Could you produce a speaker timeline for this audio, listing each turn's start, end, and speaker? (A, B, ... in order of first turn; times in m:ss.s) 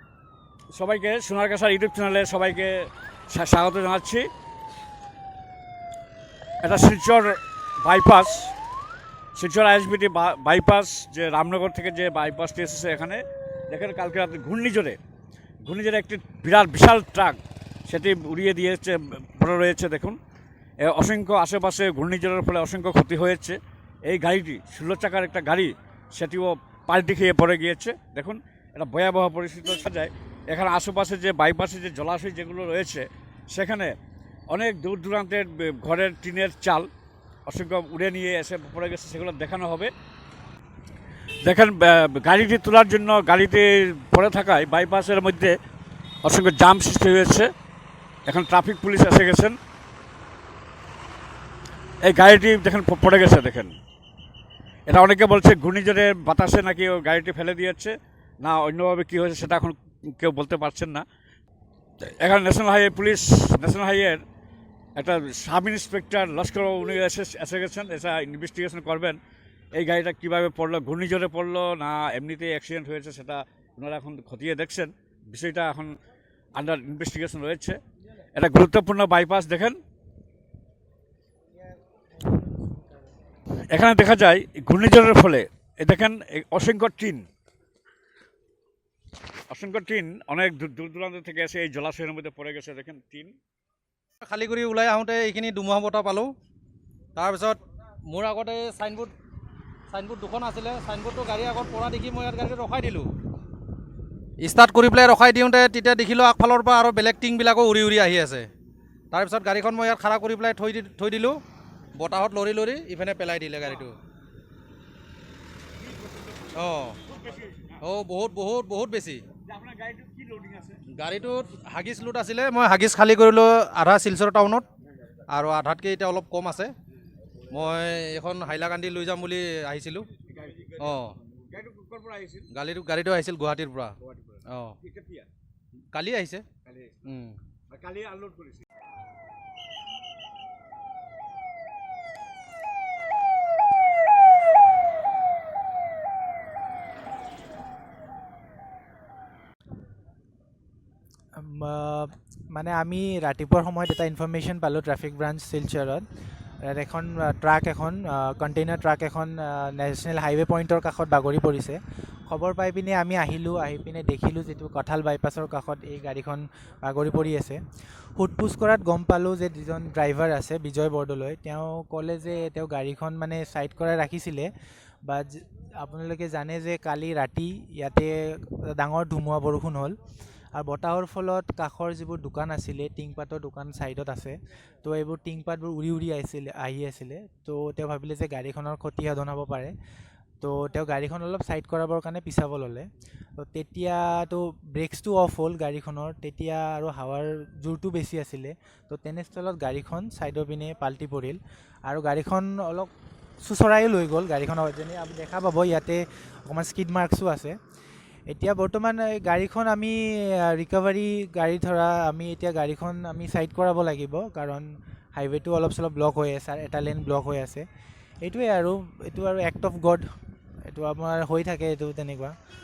0:00.7-0:04.3 A
0:06.6-0:08.5 A
0:09.4-0:15.0 A
0:15.6-0:20.2 A
0:20.8-0:33.9 A
0:34.5-0:36.9 A
0:37.5-0:39.9 A
0:41.4-0:45.6 A
0:46.2-0:47.5 A
0:48.3-0:49.6 A
0:52.0-0:53.8 A
0:54.9-1:01.0 A
1:02.0-1:04.2 A
1:05.0-1:09.2 A
1:09.8-1:16.0 A
1:16.6-1:17.8 A
1:18.3-1:19.8 A
1:22.3-1:22.8 B
1:23.7-1:27.2 A
1:29.5-1:33.4 A
1:34.2-1:36.3 C
1:37.2-1:39.1 C
1:39.9-1:43.1 C
1:44.4-1:48.5 C
1:49.1-1:51.4 C
1:52.0-1:54.0 C
1:56.1-1:56.5 A
1:56.5-1:57.0 C
1:57.1-1:57.8 A
1:57.8-1:59.2 C
1:59.4-2:00.8 A
2:00.9-2:04.6 C
2:05.3-2:06.7 C
2:07.5-2:10.1 C
2:10.2-2:12.5 A
2:10.8-2:11.2 C
2:12.5-2:14.0 C
2:14.0-2:15.3 A
2:14.5-2:14.8 C
2:15.9-2:16.5 C
2:16.6-2:17.0 A
2:17.0-2:17.4 C
2:17.7-2:18.6 A
2:31.4-2:36.0 B
2:36.7-2:47.6 B
2:48.2-2:54.5 B
2:55.1-3:00.0 B
3:00.5-3:09.7 B
3:10.4-3:12.9 B
3:13.4-3:22.9 B
3:23.4-3:27.6 B
3:28.3-3:37.6 B
3:38.2-3:40.0 B
3:40.7-3:42.3 B